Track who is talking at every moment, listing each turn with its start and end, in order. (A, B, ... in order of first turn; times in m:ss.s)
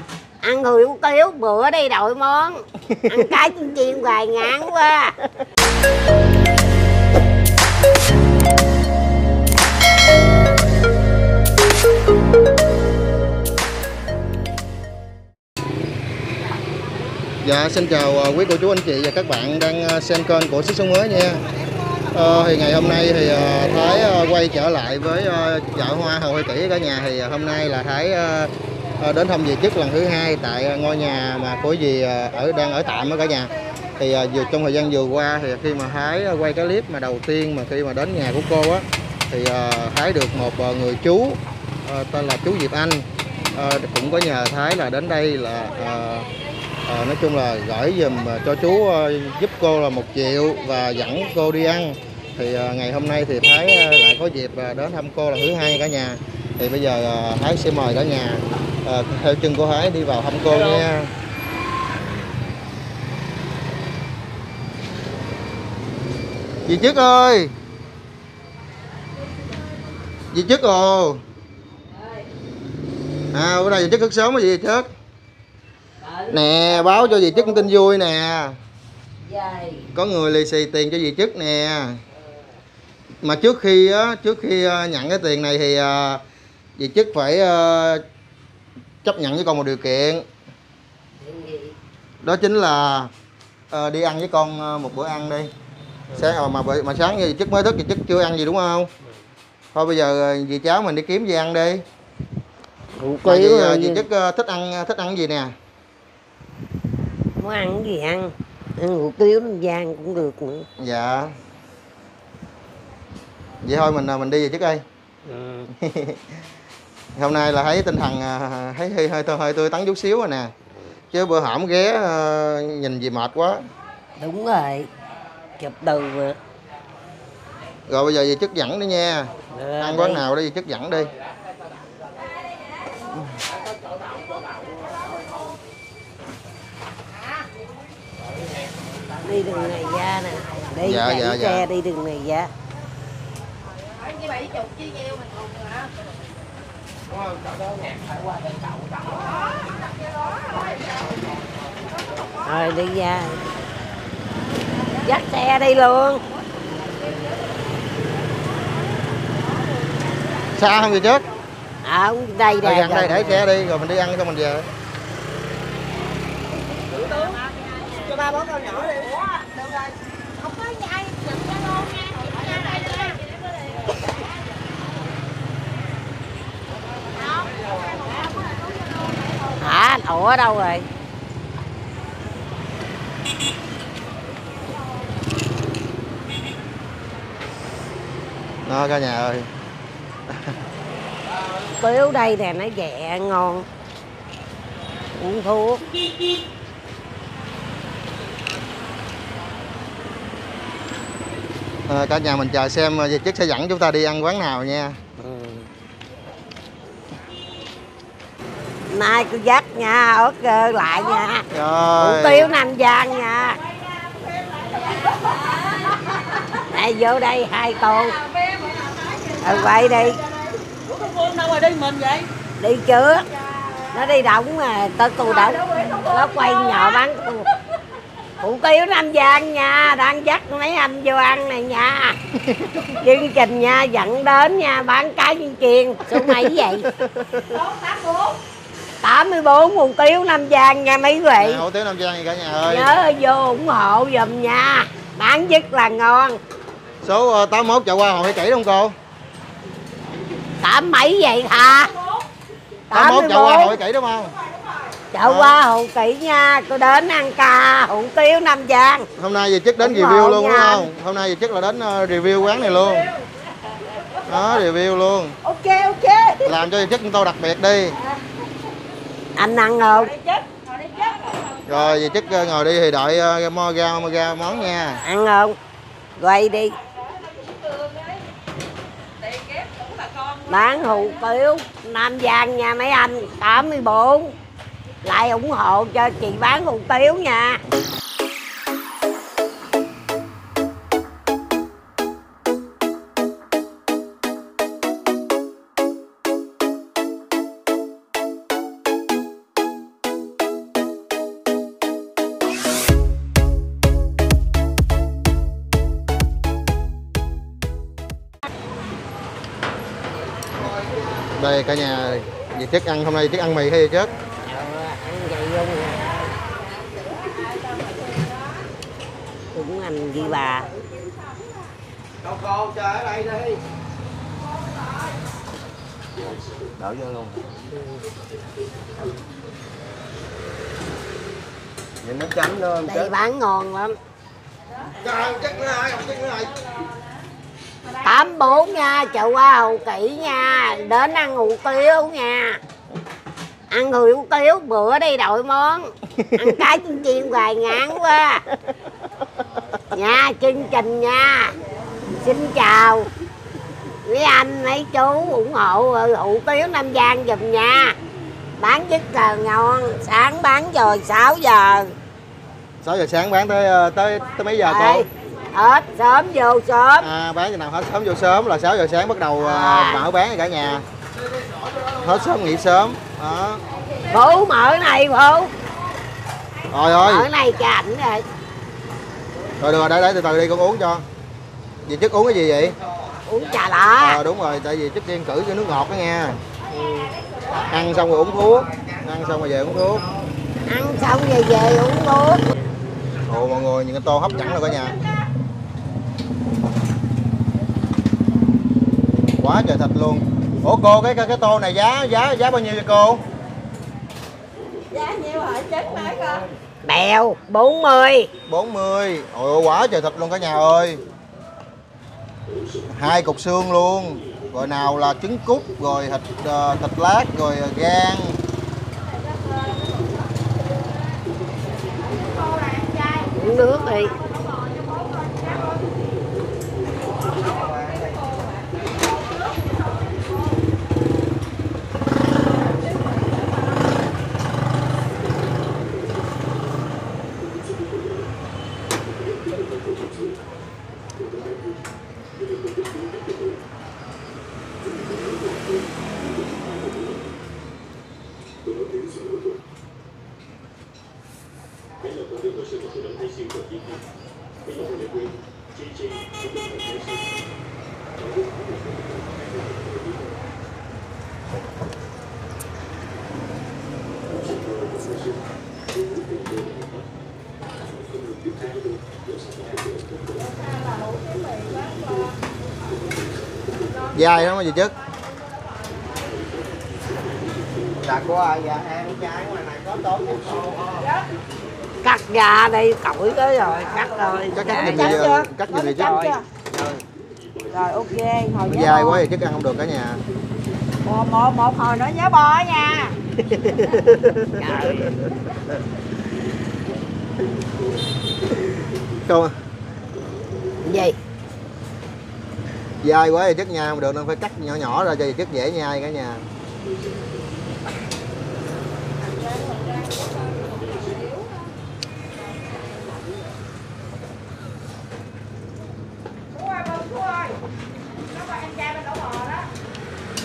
0:00.4-0:05.2 A
0:02.9-0:03.3 B
0:17.4-0:21.4 B
0:22.1-0:46.3 B
0:46.8-1:01.1 B
1:06.6-1:07.5 B
1:10.3-1:11.2 B
1:13.3-1:14.9 B
1:16.0-1:17.6 A
1:16.3-1:18.6 B
1:19.2-1:19.9 A
1:19.9-1:22.0 B
1:23.2-1:26.2 B
1:26.8-1:28.0 B
1:29.0-1:30.2 B
1:31.2-1:31.7 A
1:32.2-1:33.1 B
1:33.7-1:35.5 B
1:36.1-1:38.9 B
1:39.7-1:41.8 B
1:43.0-1:44.1 A
1:43.2-1:45.5 B
1:47.4-1:50.6 A
1:50.8-1:51.3 B
1:53.6-1:54.8 B
1:55.3-1:55.7 A
1:55.8-1:56.2 B
1:57.2-2:00.5 B
2:01.1-2:03.6 B
2:04.2-2:04.9 A
2:05.6-2:06.4 A
2:07.9-2:11.1 B
2:09.5-2:10.2 A
2:19.2-2:22.5 A
2:20.8-2:21.6 B
2:32.4-2:33.4 A
2:35.0-2:36.2 A
2:40.5-2:41.2 B
2:41.8-2:43.4 A
2:42.6-2:44.7 B
2:48.1-2:49.6 C
2:50.6-2:51.3 C
2:59.5-3:00.9 A
3:08.6-3:09.5 B
3:11.7-3:13.7 A
3:15.1-3:15.8 A
3:21.9-3:25.0 B
3:25.2-3:25.7 A
3:28.9-3:31.4 A
3:31.5-3:32.5 B
3:32.0-3:33.6 A
3:34.4-3:35.4 C
3:36.4-3:38.2 A
3:38.6-3:39.2 C
3:39.4-3:40.2 A
3:40.9-3:42.3 C
3:42.6-3:43.3 A
3:43.9-3:47.5 A
3:48.4-3:52.2 A
3:52.5-3:52.9 B
3:52.9-3:56.9 A
3:56.1-3:57.6 B
3:57.6-3:58.3 C
3:59.0-4:01.6 A
4:01.4-4:02.9 B
4:02.6-4:06.4 A
4:07.0-4:08.9 B
4:10.6-4:11.9 A
4:12.9-4:13.8 A
4:12.9-4:14.3 B
4:15.1-4:19.1 A
4:15.2-4:15.6 B
4:19.2-4:23.1 B
4:19.8-4:20.9 A
4:24.2-4:25.4 B
4:25.5-4:26.4 A
4:26.4-4:28.0 B
4:29.4-4:30.2 A
4:31.6-4:35.0 B
4:35.0-4:35.6 A
4:36.2-4:36.8 A
4:39.3-4:39.8 C
4:40.5-4:44.3 A
4:45.0-4:47.6 A
5:11.2-5:14.1 B
5:14.4-5:16.3 A
5:19.5-5:20.7 A
5:26.8-5:27.4 B
5:32.0-5:33.1 B
5:32.8-5:34.0 A
5:35.0-5:36.5 B
5:38.0-5:42.6 A
5:43.7-5:48.4 A
5:46.2-5:46.5 B
5:49.9-5:51.5 A
5:52.2-5:53.1 A
5:54.0-5:58.0 A
5:58.6-6:01.9 A
6:02.8-6:05.0 B
6:04.6-6:07.1 A
6:07.0-6:10.8 B
6:09.4-6:10.0 A
6:11.8-6:13.6 B
6:14.0-6:15.5 A
6:16.7-6:17.3 B
6:16.9-6:18.2 A
6:19.6-6:21.0 B
6:21.8-6:22.8 B
6:23.3-6:24.2 A
6:24.0-6:26.4 B
6:26.7-6:27.1 A
6:27.5-6:30.1 B
6:30.7-6:32.4 A
6:33.3-6:35.0 B
6:39.4-6:43.2 B
6:44.9-6:46.4 C
6:46.8-6:48.3 A
6:48.5-6:51.0 B
6:52.9-6:58.4 B
7:03.2-7:04.2 A
7:54.1-7:54.9 B
7:58.0-8:00.8 B
8:02.0-8:05.4 A
8:04.5-8:06.4 B
8:04.8-8:06.4 C
8:06.0-8:06.4 A
8:07.7-8:09.2 C
8:08.6-8:10.2 B
8:11.0-8:13.1 C
8:13.4-8:15.1 B
8:14.6-8:15.2 A
8:19.2-8:19.5 B
8:20.8-8:21.2 A
8:23.0-8:26.4 B
8:38.8-8:39.4 C